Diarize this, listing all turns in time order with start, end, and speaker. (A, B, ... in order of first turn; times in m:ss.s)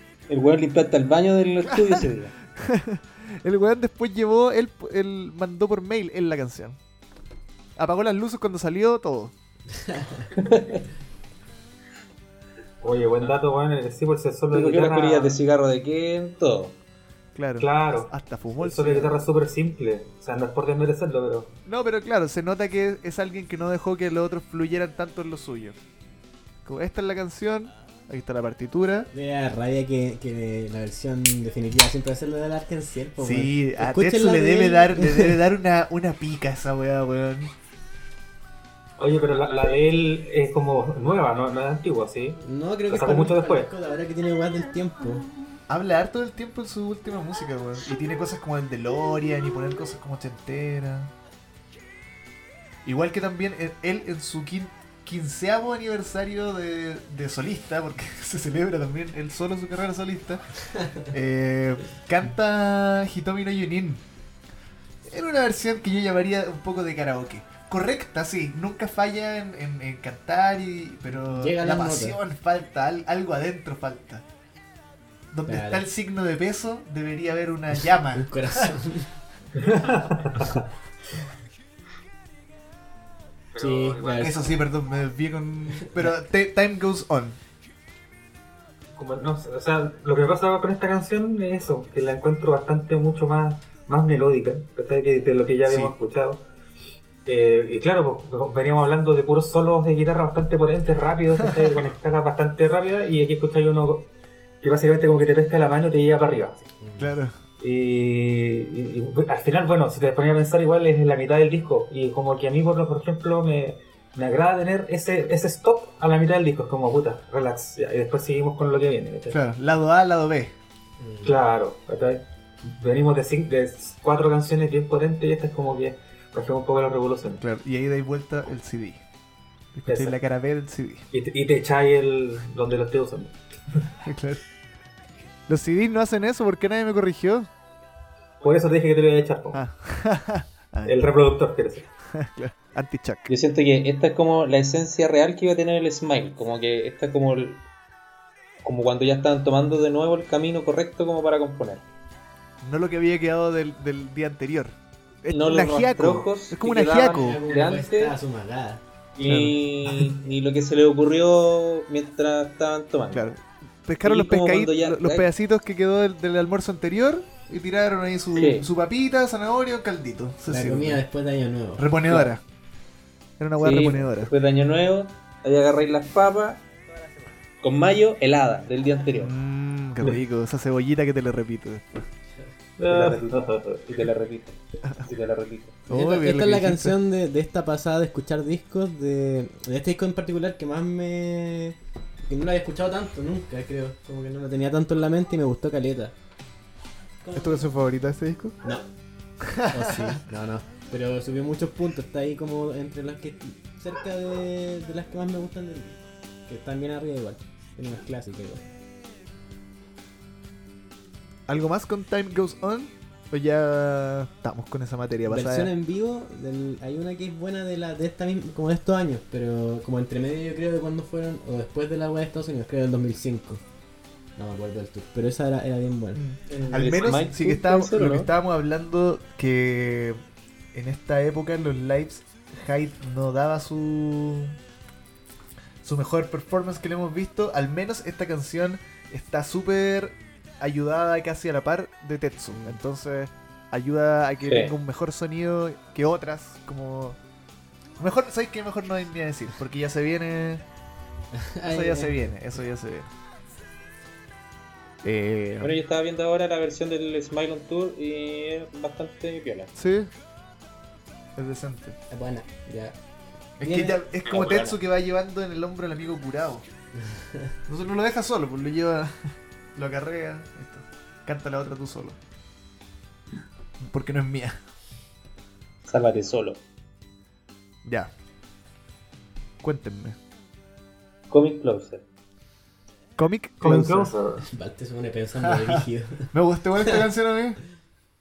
0:00.3-0:02.3 A
0:01.6-0:06.8 B
0:07.8-0:09.3 B
0:09.8-0:10.3 C
0:10.3-0:10.8 A
0:12.8-0:15.4 D
0:14.5-0:16.8 A
0:17.4-0:19.2 B
0:17.6-0:21.5 D
0:21.7-0:25.8 B
0:26.6-0:29.1 B
0:29.1-0:35.4 C
0:33.2-0:37.5 B
0:39.0-0:43.7 D
0:42.4-0:45.3 C
0:45.7-0:51.1 B
0:52.8-1:00.4 B
1:01.1-1:04.0 B
1:05.0-1:14.2 B
1:11.2-1:12.2 C
1:15.3-1:18.7 B
1:15.5-1:15.8 C
1:18.0-1:19.1 C
1:19.6-1:20.6 D
1:23.6-1:24.4 D
1:23.6-1:24.4 C
1:24.2-1:27.4 B
1:25.8-1:26.1 C
1:29.0-1:36.4 D
1:35.7-1:36.0 B
1:37.3-1:44.1 D
1:44.6-1:46.6 D
1:46.8-1:47.2 C
1:47.0-1:47.3 B
1:47.6-1:59.4 D
1:59.3-2:00.5 B
2:01.0-2:01.4 C
2:01.2-2:07.4 D
2:07.3-2:09.0 B
2:09.8-2:11.1 B
2:09.9-2:10.1 D
2:11.1-2:13.8 D
2:14.0-2:14.4 B
2:15.5-2:17.5 B
2:18.4-2:19.6 D
2:19.5-2:21.1 B
2:20.8-2:21.9 D
2:22.1-2:23.3 B
2:23.3-2:27.6 A
2:28.6-2:31.8 A
2:32.6-2:37.4 B
2:35.3-2:38.1 A
2:37.1-2:38.8 C
2:39.2-2:43.3 A
2:39.2-2:40.1 B
2:43.1-2:51.0 B
2:44.0-2:45.3 A
2:48.3-2:48.7 A
2:50.5-2:51.9 C
2:51.8-2:52.4 B
2:52.1-2:52.3 A
2:53.4-2:54.3 B
2:53.6-2:56.6 A
2:56.9-2:57.3 C
2:57.6-2:59.3 A
2:59.2-3:02.1 B
3:02.8-3:03.5 D
3:02.8-3:05.8 A
3:05.9-3:07.0 B
3:05.9-3:16.1 C
3:17.2-3:17.7 C
3:17.3-3:18.6 B
3:18.6-3:18.9 C
3:19.4-3:20.2 B
3:19.7-3:28.6 C
3:31.5-3:35.7 B
3:35.3-3:43.6 C
3:44.4-3:46.2 C
3:46.1-3:50.2 B
3:46.5-3:48.3 A
3:50.7-3:54.6 B
3:55.8-4:07.2 B
4:02.5-4:02.8 C
4:04.4-4:04.7 A
4:08.0-4:10.6 B
4:11.3-4:12.4 C
4:11.6-4:13.1 B
4:15.0-4:15.7 B
4:15.6-4:19.7 A
4:19.8-4:20.1 B
4:21.4-4:22.0 B
4:22.1-4:23.0 C
4:23.6-4:26.6 B
4:23.6-4:24.0 C
4:24.2-4:24.8 A
4:27.7-4:32.2 B
4:33.8-4:34.6 B
4:35.9-4:36.6 A
4:37.8-4:38.1 B
4:39.6-4:40.2 B
4:41.3-4:42.0 A
4:43.2-4:44.1 B
4:43.6-4:44.5 D
4:44.5-4:46.3 C
4:45.4-4:47.6 B